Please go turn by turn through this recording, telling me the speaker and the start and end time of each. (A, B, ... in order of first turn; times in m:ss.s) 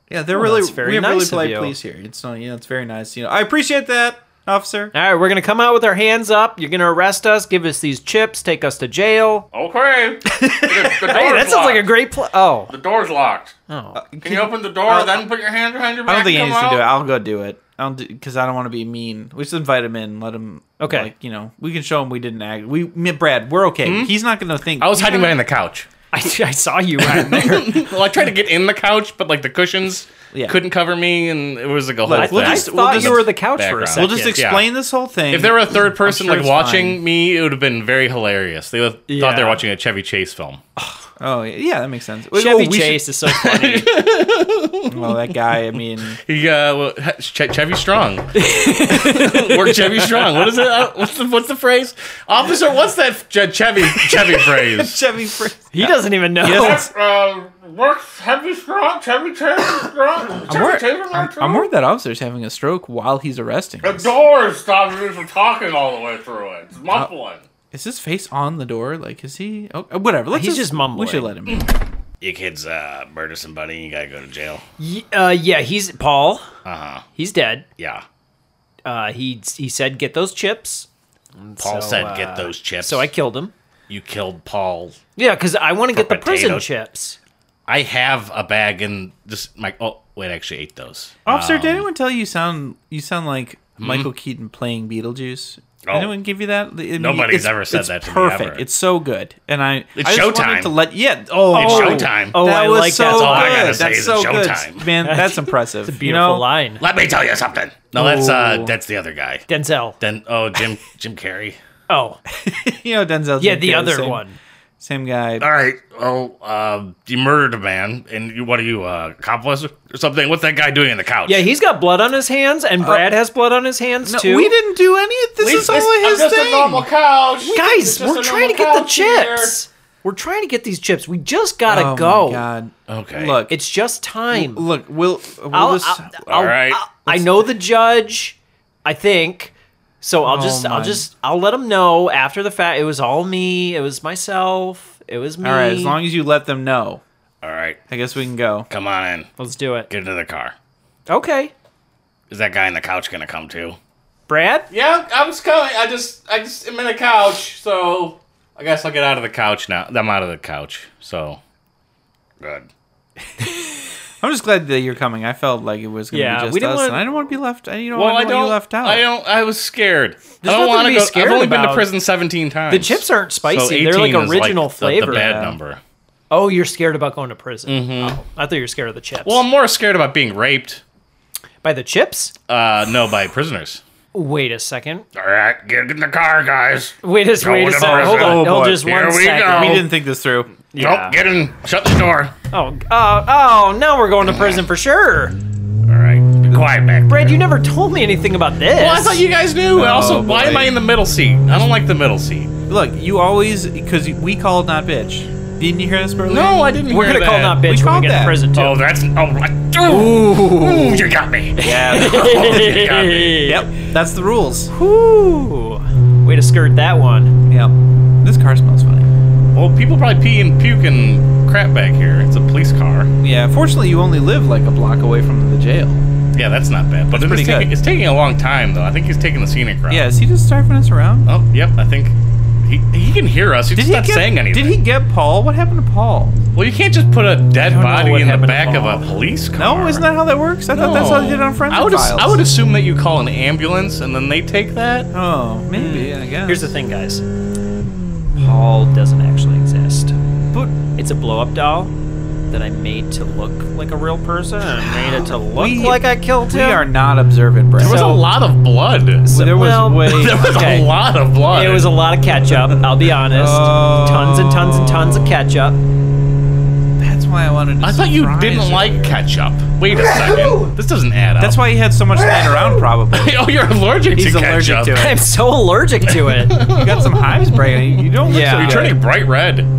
0:00.1-0:04.9 A
0:00.3-0:01.7 B
0:04.9-0:09.5 B
0:09.5-0:11.9 C
0:10.3-0:10.9 A
0:10.9-0:12.7 B
0:12.7-0:13.5 C
0:13.7-0:14.0 B
0:13.9-0:15.2 A
0:14.2-0:16.9 C
0:16.0-0:25.4 A
0:20.8-0:21.1 B
0:23.8-0:24.1 C
0:24.8-0:25.9 C
0:26.1-0:27.8 B
0:27.0-0:34.7 C
0:30.3-0:30.6 A
0:32.0-0:33.3 A
0:32.1-0:34.4 B
0:33.9-0:37.0 A
0:35.3-0:40.6 C
0:39.1-0:39.6 B
0:41.2-0:43.1 A
0:42.3-0:44.0 B
0:43.3-0:45.5 C
0:44.9-0:46.2 A
0:46.1-0:55.0 C
0:48.3-0:50.5 B
0:54.8-0:56.9 A
0:55.7-0:56.9 B
0:56.5-1:01.7 C
1:00.5-1:04.1 A
1:03.8-1:07.4 C
1:07.7-1:11.7 A
1:10.3-1:11.3 B
1:12.2-1:14.6 C
1:14.8-1:16.5 B
1:16.6-1:17.0 C
1:17.1-1:17.6 B
1:17.8-1:18.0 C
1:18.8-1:23.5 B
1:21.6-1:23.1 C
1:23.9-1:25.0 C
1:25.2-1:27.2 B
1:25.9-1:26.7 C
1:27.7-1:31.9 C
1:31.2-1:46.5 A
1:33.8-1:34.1 C
1:35.8-1:36.2 C
1:37.0-1:38.6 C
1:40.0-1:40.8 C
1:41.5-1:43.9 B
1:41.5-1:42.4 C
1:43.0-1:44.9 C
1:45.0-1:46.8 B
1:46.8-1:49.4 C
1:47.9-1:48.7 A
1:49.5-1:50.0 B
1:50.0-1:51.6 C
1:51.9-1:52.2 B
1:52.3-1:54.2 A
1:53.4-1:54.4 B
1:54.8-1:55.4 A
1:55.4-2:01.5 C
2:01.2-2:04.5 B
2:02.8-2:03.1 A
2:04.0-2:06.9 A
2:05.4-2:09.6 C
2:07.4-2:12.4 B
2:11.7-2:13.6 A
2:12.9-2:13.4 C
2:13.5-2:14.7 B
2:14.3-2:16.5 A
2:15.5-2:26.0 B
2:16.2-2:16.8 C
2:17.0-2:17.5 A
2:20.2-2:21.1 A
2:25.4-2:27.0 A
2:27.4-2:27.8 C
2:27.9-2:28.7 A
2:28.7-2:29.3 C
2:29.4-2:29.9 B
2:29.9-2:30.5 C
2:31.1-2:31.5 B
2:32.3-2:33.8 C
2:34.3-2:34.7 B
2:34.7-2:41.4 C
2:42.4-2:42.7 C
2:44.2-2:49.0 A
2:46.1-2:47.0 B
2:47.9-2:55.8 C
2:50.4-2:51.9 B
2:52.7-2:55.4 B
2:55.1-2:55.6 A
2:56.3-2:59.4 B
2:57.7-2:58.2 C
2:59.2-3:00.8 C
3:01.6-3:02.3 B
3:02.5-3:03.8 C
3:04.1-3:05.0 B
3:05.1-3:09.9 C
3:07.0-3:09.8 B
3:07.8-3:08.9 A
3:09.5-3:10.5 A
3:10.7-3:11.2 B
3:10.8-3:12.3 C
3:12.5-3:15.4 B
3:14.3-3:14.6 C
3:15.9-3:17.4 C
3:17.1-3:19.2 B
3:18.8-3:22.5 C
3:19.8-3:20.8 A
3:22.7-3:26.7 A
3:26.3-3:27.6 C
3:26.9-3:28.8 B
3:27.6-3:28.4 A
3:28.5-3:33.5 C
3:30.0-3:31.0 B
3:30.0-3:30.5 A
3:31.6-3:32.9 A
3:31.6-3:33.7 B
3:33.4-3:34.7 A
3:34.7-3:37.3 B
3:37.5-3:39.1 A
3:39.5-3:43.1 C
3:43.2-3:46.0 A
3:46.3-3:50.1 C
3:47.1-3:47.7 A
3:49.9-3:51.3 A
3:51.2-3:54.8 C
3:53.8-3:56.4 A
3:56.5-4:00.1 C
3:57.7-3:59.0 B
3:59.6-4:02.4 A
4:00.7-4:05.1 C
4:05.1-4:06.8 A
4:05.7-4:07.2 B
4:08.4-4:11.9 B
4:12.5-4:16.9 B
4:14.8-4:18.1 A
4:17.8-4:19.3 C
4:17.8-4:18.2 B
4:19.2-4:20.9 B
4:19.3-4:20.4 A
4:20.0-4:22.0 C
4:21.5-4:25.8 B
4:23.3-4:25.4 A
4:27.0-4:29.2 A
4:27.8-4:31.6 C
4:29.9-4:30.7 B
4:31.4-4:33.4 A
4:32.2-4:32.9 B
4:33.1-4:35.1 C
4:34.1-4:35.2 A
4:34.9-4:36.6 B
4:36.0-4:39.7 C
4:36.7-4:39.0 A
4:38.2-4:39.0 B